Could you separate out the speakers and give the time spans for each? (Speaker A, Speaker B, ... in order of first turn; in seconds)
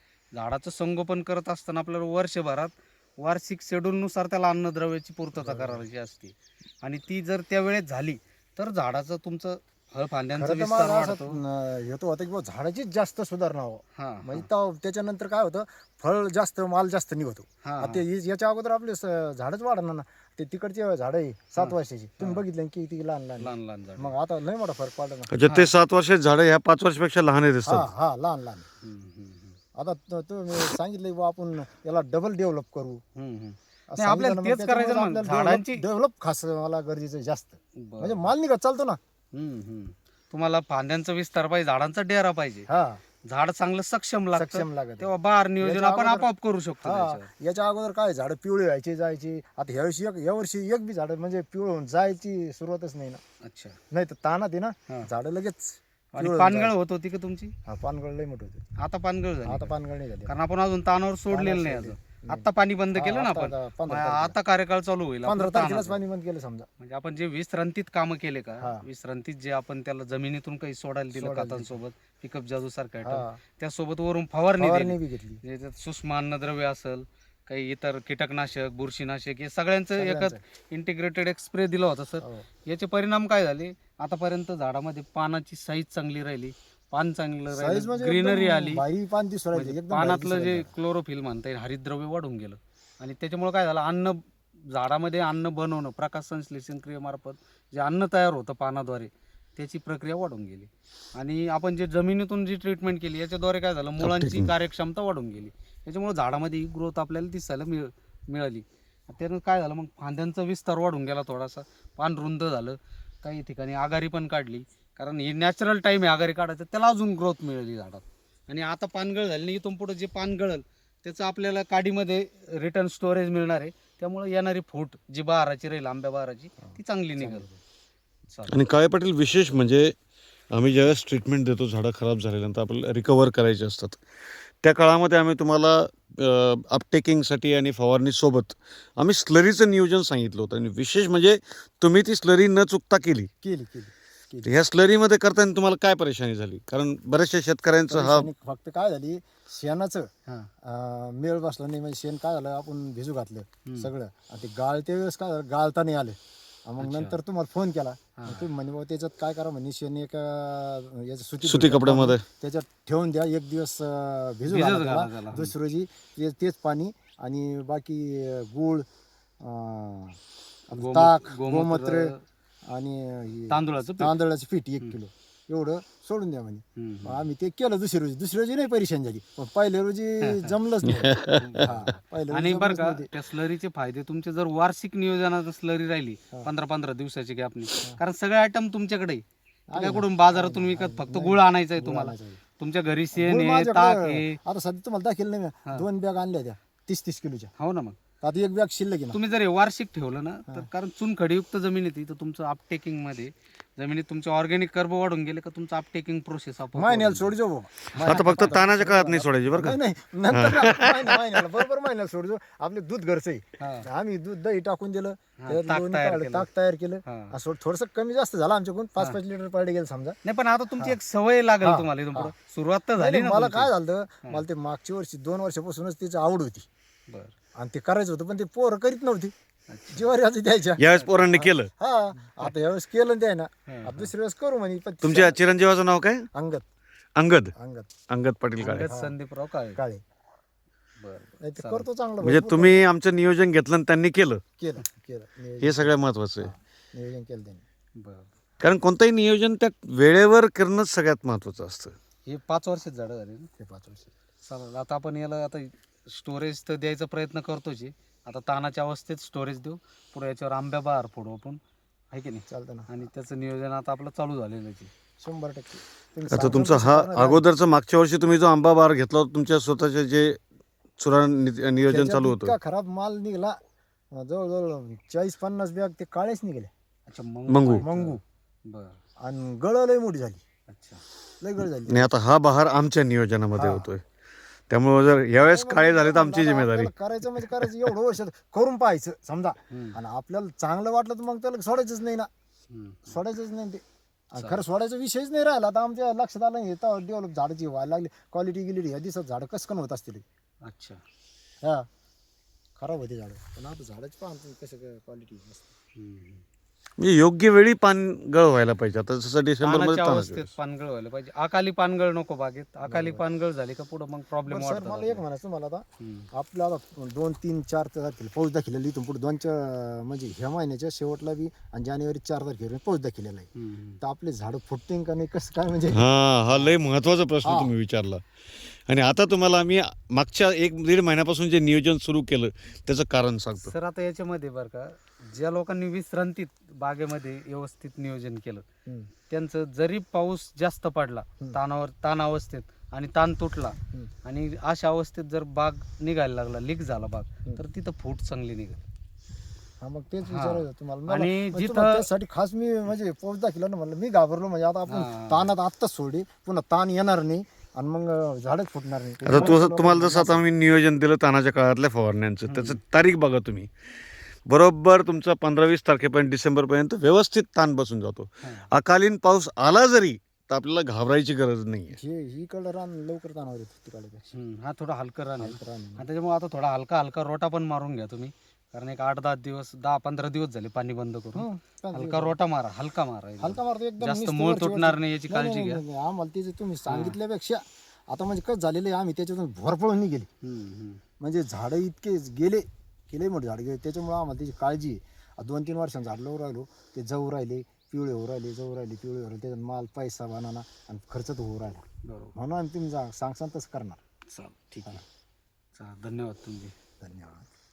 Speaker A: 0.3-11.4, 13.9-14.4, 17.6-18.0, 21.6-22.4, 23.4-24.1, 25.4-25.7, 28.8-29.6, 33.1-35.8, 37.8-38.3, 39.3-42.7, 43.3-47.3, 53.4-53.8, 56.1-57.5, 58.8-59.7, 60.3-66.0, 66.8-88.8, 89.5-127.5, 128.3-128.6, 153.6-153.9, 156.8-157.2, 158.2-158.5, 164.5-165.5, 170.7-172.2, 173.5-174.1, 176.8-177.2, 180.2-180.5, 181.4-181.7, 182.3-189.2, 189.7-194.4, 197.6-198.0, 199.1-207.3, 208.0-208.6, 213.6-213.9, 215.4-216.5, 217.0-217.3, 220.2-223.7, 227.1-227.3, 229.7-230.1, 230.9-231.3, 233.7-234.1, 238.6-239.8, 241.0-241.9, 248.0-248.3, 252.3-253.5, 254.4-261.6, 262.1-264.9, 277.1-279.0, 280.7-281.0, 289.7-290.0, 292.7-293.2, 294.4-294.6, 300.6-301.0, 305.9-306.4, 309.6-315.2, 316.0-316.3, 323.6-324.0, 333.6-338.6, 339.3-348.8, 350.2-352.1, 354.9-355.5, 362.5-362.8, 368.4-368.7, 374.3-385.8, 386.9-387.2, 390.4-391.0, 402.0-402.3, 404.3-405.0, 405.8-406.7
Speaker B: 5.4-5.8, 10.3-25.3, 27.6-28.6, 29.8-33.0, 33.9-39.0, 42.7-43.0, 44.3-46.3, 46.8-53.2, 53.9-56.7, 57.6-58.6, 59.5-60.3, 61.3-64.3, 65.2-66.7, 68.6-68.8, 71.1-71.8, 73.0-73.4, 74.6-75.4, 80.0-80.4, 87.5-90.7, 126.6-127.6, 143.4-144.5, 147.9-150.1, 150.6-168.8, 169.4-170.2, 170.7-172.1, 172.7-183.1, 189.7-192.4, 193.1-197.5, 198.2-199.2, 206.7-220.2, 221.6-222.3, 223.0-226.7, 227.6-229.3, 229.9-235.4, 236.3-236.6, 237.6-237.9, 238.6-239.1, 239.8-240.0, 241.4-242.8, 244.6-247.6, 253.6-254.1, 262.5-262.9, 265.2-267.4, 271.8-273.6, 274.1-276.7, 277.8-278.2, 279.2-280.4, 281.4-282.1, 283.5-283.9, 285.4-292.3, 293.1-300.2, 302.8-305.7, 312.9-313.2, 314.5-323.5, 324.0-326.0, 327.4-327.7, 338.9-339.1, 349.8-360.4, 371.9-374.3, 375.4-376.1, 381.3-382.4, 383.4-390.3, 391.2-401.8, 402.4-404.0, 407.0-407.4
Speaker C: 25.3-27.9, 104.0-104.5, 128.5-129.9, 130.5-134.0, 134.6-143.3, 144.4-148.3, 161.4-162.2, 180.9-181.6, 208.0-209.8, 210.3-211.3, 230.8-231.7, 235.0-236.3, 237.2-237.5, 238.1-238.9, 242.2-244.4, 245.6-246.5, 248.6-251.9, 266.3-270.4, 271.0-272.6, 277.5-277.9, 281.9-284.0, 284.7-287.7, 307.0-310.5, 325.9-328.2, 328.9-333.7, 359.2-363.7, 364.5-372.0